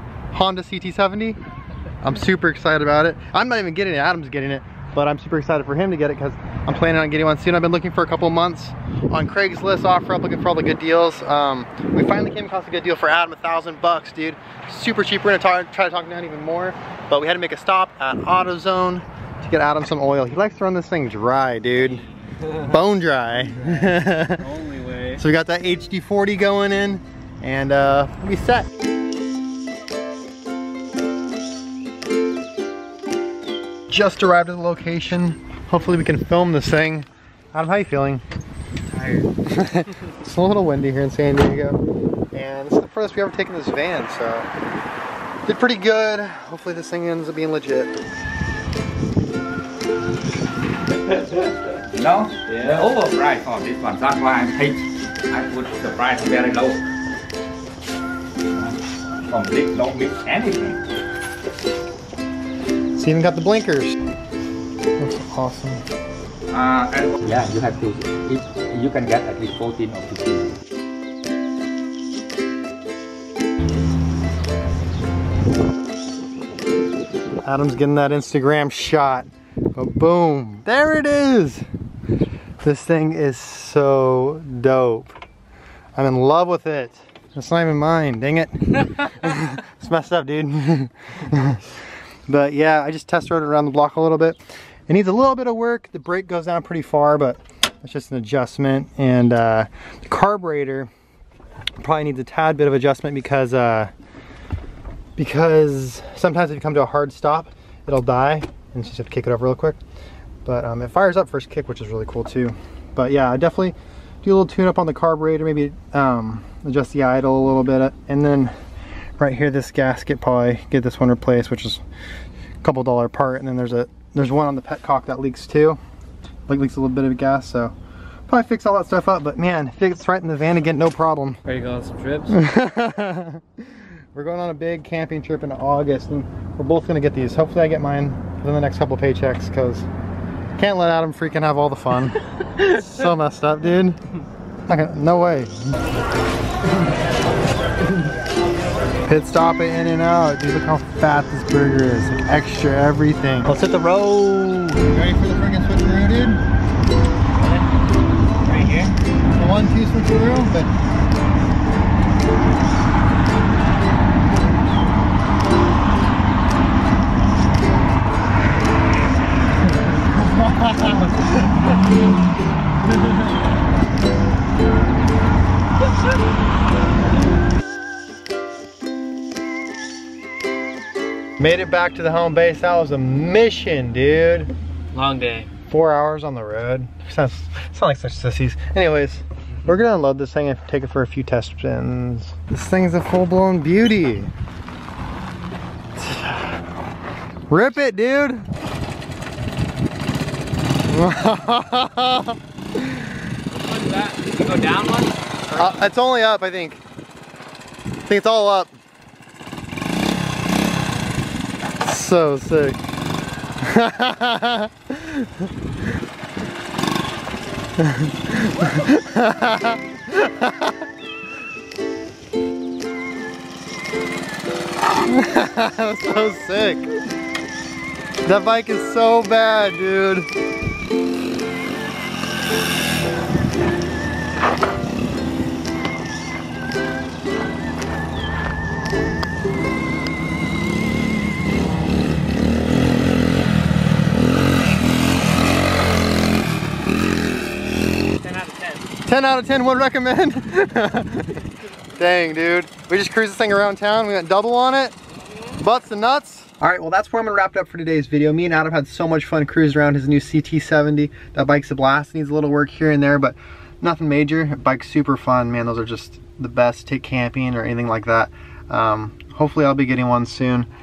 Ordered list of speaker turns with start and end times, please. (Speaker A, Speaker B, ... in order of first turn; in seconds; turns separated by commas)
Speaker A: 0.3-1.4, Speaker A: 2.0-24.5, Speaker B: 24.4-25.2, Speaker A: 25.1-28.7, Speaker A: 33.9-38.2, Speaker B: 38.9-39.2, Speaker A: 39.4-41.8, Speaker A: 42.3-44.5, Speaker A: 45.4-47.9, Speaker C: 51.2-56.8, Speaker C: 58.5-60.8, Speaker A: 63.0-64.0, Speaker A: 65.0-65.8, Speaker C: 66.5-70.6, Speaker A: 77.4-81.7, Speaker A: 82.6-85.2, Speaker A: 86.0-91.8, Speaker A: 92.3-100.9, Speaker A: 101.8-103.9, Speaker A: 105.2-109.8, Speaker A: 110.4-118.5, Speaker A: 119.2-121.8, Speaker A: 122.6-125.8, Speaker A: 126.5-127.7, Speaker A: 128.3-131.4, Speaker B: 131.4-132.4, Speaker A: 132.3-139.9, Speaker A: 140.6-144.0, Speaker A: 144.7-145.7, Speaker A: 149.1-156.4, Speaker B: 157.4-157.6, Speaker B: 158.4-158.9, Speaker A: 159.3-160.7, Speaker A: 169.7-171.8, Speaker A: 181.4-184.5, Speaker B: 184.9-185.5, Speaker A: 185.7-194.3, Speaker A: 195.9-196.6, Speaker A: 197.5-198.4, Speaker A: 200.8-203.2, Speaker B: 203.5-205.8, Speaker A: 205.5-206.8, Speaker A: 208.1-208.7, Speaker A: 211.8-212.8, Speaker A: 213.6-215.5, Speaker A: 217.8-220.8, Speaker A: 225.0-226.9, Speaker A: 228.2-230.3, Speaker B: 248.2-248.9, Speaker A: 249.1-254.9, Speaker A: 255.6-270.7